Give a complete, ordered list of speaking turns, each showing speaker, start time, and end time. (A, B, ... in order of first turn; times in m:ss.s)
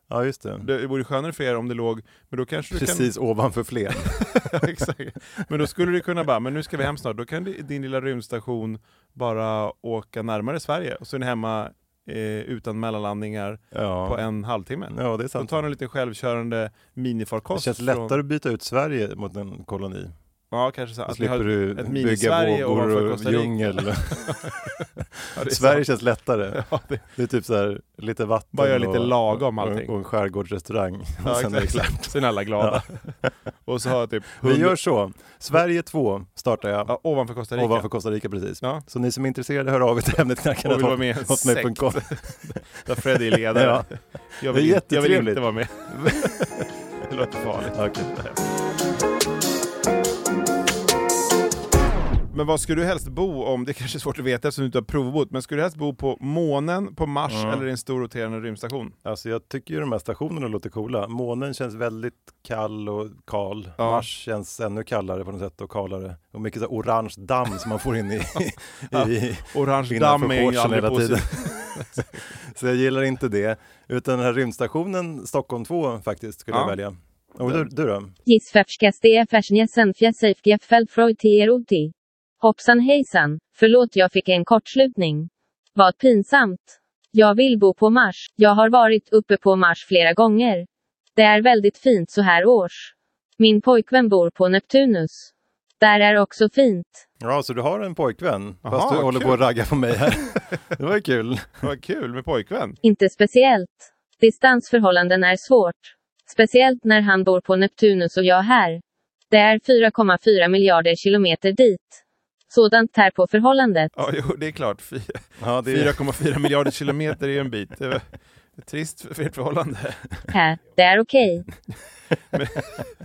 0:00.1-0:00.7 A
0:00.6-0:03.1 B
0:02.7-0:04.3 A
0:04.0-0:18.2 B
0:13.7-0:14.2 A
0:14.9-0:15.6 A
0:17.5-0:20.1 A
0:20.5-0:25.9 B
0:21.1-0:24.4 A
0:25.3-0:32.8 A
0:26.5-0:27.0 B
0:28.5-0:29.9 B
0:31.2-0:34.8 B
0:34.4-0:37.0 A
0:36.9-0:37.9 B
0:37.5-0:42.2 A
0:40.6-0:48.4 B
0:43.5-0:43.9 A
0:44.5-0:46.1 A
0:47.7-0:48.1 A
0:52.3-0:58.9 B
0:57.3-0:57.6 A
0:59.0-1:18.1 A
1:03.8-1:04.0 B
1:08.9-1:12.2 B
1:16.5-1:16.8 B
1:18.2-1:35.3 C
1:35.8-1:37.0 C
1:37.2-1:41.7 A
1:38.6-1:39.4 B
1:41.6-1:42.8 B
1:42.8-1:52.0 C
1:52.5-1:53.9 C
1:54.0-1:58.1 B
1:55.4-1:56.0 A
1:58.6-2:00.2 B
2:00.3-2:01.4 C
2:02.3-2:02.9 B